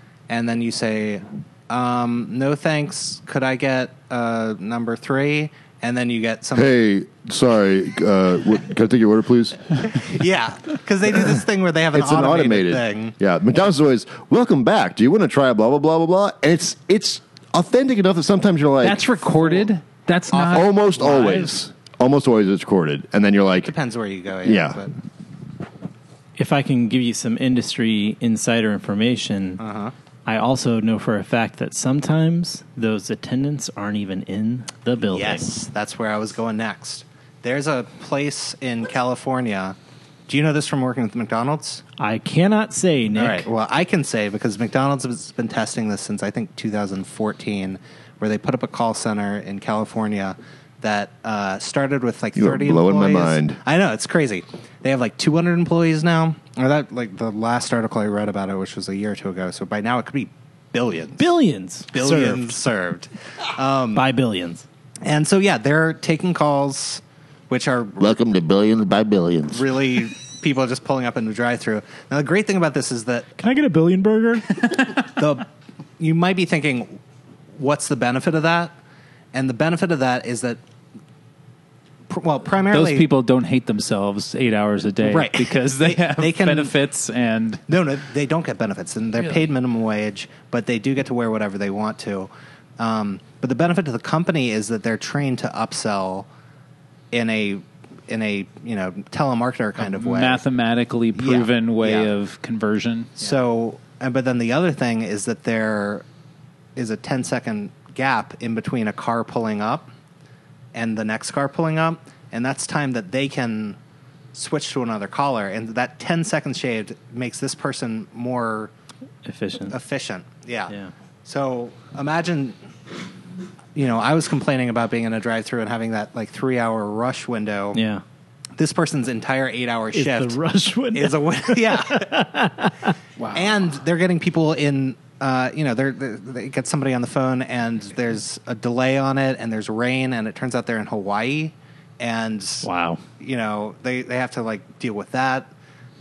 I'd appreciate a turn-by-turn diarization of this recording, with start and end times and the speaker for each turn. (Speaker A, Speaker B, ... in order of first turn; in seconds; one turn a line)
Speaker A: 0.3-6.7
Speaker B: 6.5-9.6
Speaker A: 9.9-13.1
Speaker B: 11.9-19.0
Speaker C: 18.8-21.5
Speaker A: 20.3-20.6
Speaker B: 20.4-23.7
Speaker A: 23.6-24.9
Speaker B: 24.4-24.8
Speaker D: 26.4-29.6
Speaker A: 29.6-29.9
Speaker D: 30.2-35.5
Speaker A: 35.1-39.8
Speaker A: 40.3-41.8
Speaker D: 42.0-43.5
Speaker A: 43.1-61.3
Speaker B: 52.3-53.6
Speaker D: 61.1-62.6
Speaker A: 61.9-64.0
Speaker D: 63.9-64.6
Speaker A: 65.0-68.2
Speaker B: 68.0-69.6
Speaker A: 69.5-73.3
Speaker D: 73.4-74.5
Speaker A: 74.9-75.5
Speaker A: 76.0-77.0
Speaker A: 77.5-78.7
Speaker A: 79.3-80.6
Speaker A: 82.1-83.1
Speaker C: 82.7-87.6
Speaker A: 85.0-86.7
Speaker A: 87.7-96.3
Speaker C: 89.2-89.4
Speaker A: 97.1-100.4
Speaker C: 99.8-103.1
Speaker A: 101.1-102.1
Speaker A: 103.2-106.0
Speaker A: 106.8-109.9
Speaker A: 110.7-113.8
Speaker A: 114.3-118.7
Speaker D: 119.2-119.8
Speaker A: 119.7-120.7
Speaker A: 121.2-122.6
Speaker A: 123.7-127.8
Speaker D: 127.7-128.0
Speaker A: 128.6-130.4
Speaker D: 129.9-132.9
Speaker A: 130.9-132.2
Speaker C: 133.2-133.6
Speaker A: 133.3-142.7
Speaker D: 142.6-143.0
Speaker A: 143.2-145.5